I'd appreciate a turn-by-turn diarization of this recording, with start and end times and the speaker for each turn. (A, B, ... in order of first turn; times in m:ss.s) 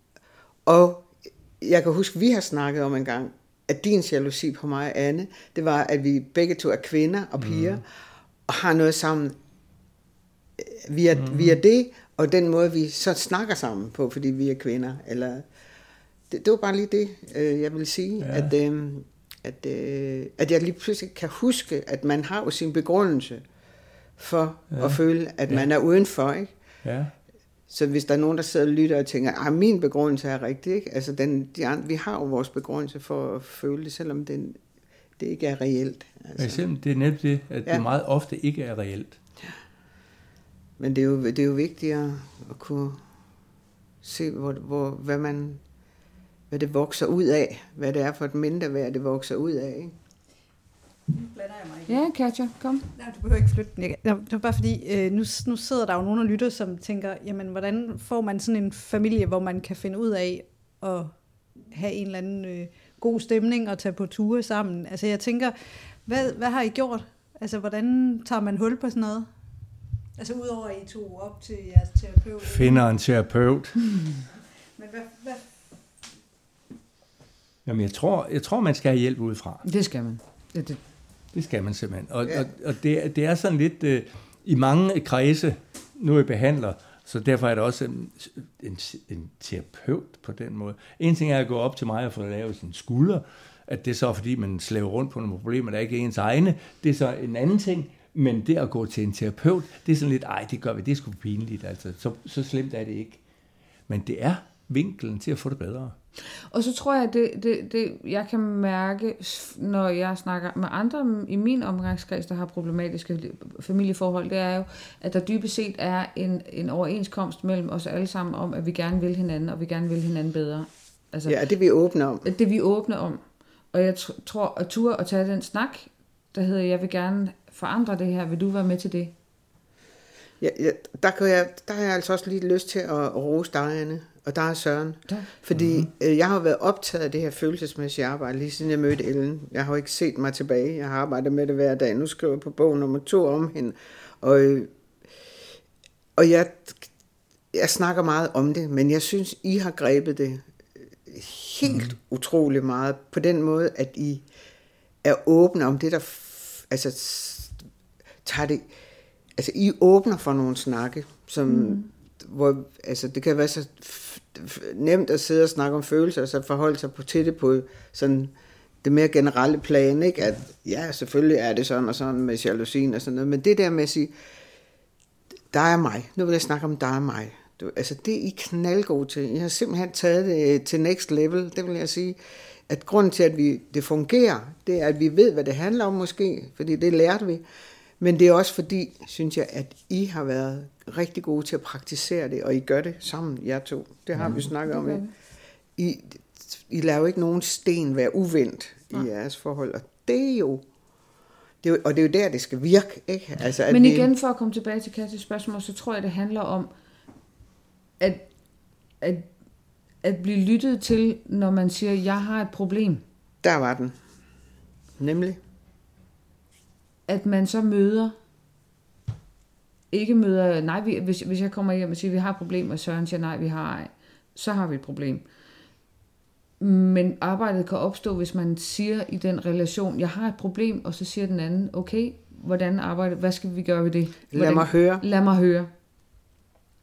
0:00.6-0:07.8 A
0:07.4-0:07.8 B
0:08.5-0:09.3 A
0:10.6-0:15.5 A
0:11.1-0:11.6 B
0:16.3-0:23.4 A
0:18.2-0:18.5 B
0:24.2-0:26.5 A
0:24.7-0:25.7 B
0:26.8-0:27.1 B
0:27.7-0:34.6 A
0:35.2-0:36.6 A
0:36.4-0:39.2 B
0:40.8-0:43.0 A
0:44.0-0:45.6 A
0:46.5-0:49.9 A
0:51.1-0:52.1 C
0:51.9-0:52.9 D
0:52.9-1:12.8 C
1:12.4-1:13.8 B
1:14.7-1:15.5 C
1:17.6-1:19.6 B
1:19.6-1:20.8 D
1:21.3-1:43.2 B
1:43.9-1:46.0 B
1:46.5-2:01.4 D
2:01.2-2:02.3 A
2:02.2-2:09.1 D
2:10.4-2:24.7 A
2:15.5-2:15.8 B
2:26.2-2:26.9 A
2:27.5-2:34.2 A
2:31.6-2:31.9 B
2:35.0-2:37.6 A
2:38.2-2:38.7 A
2:39.4-2:54.1 A
2:41.4-2:41.9 D
2:55.5-3:02.2 A
3:02.7-3:07.4 A
3:08.0-3:15.0 A
3:14.2-3:15.1 D
3:15.8-3:20.6 A
3:21.6-3:24.1 A
3:23.7-3:26.7 D
3:28.0-3:28.3 D
3:29.0-3:29.3 D
3:30.0-3:33.0 D
3:33.4-3:34.0 A
3:35.0-3:35.4 A
3:37.1-3:38.2 D
3:39.9-3:45.2 D
3:46.6-3:55.7 D
3:54.3-3:55.0 A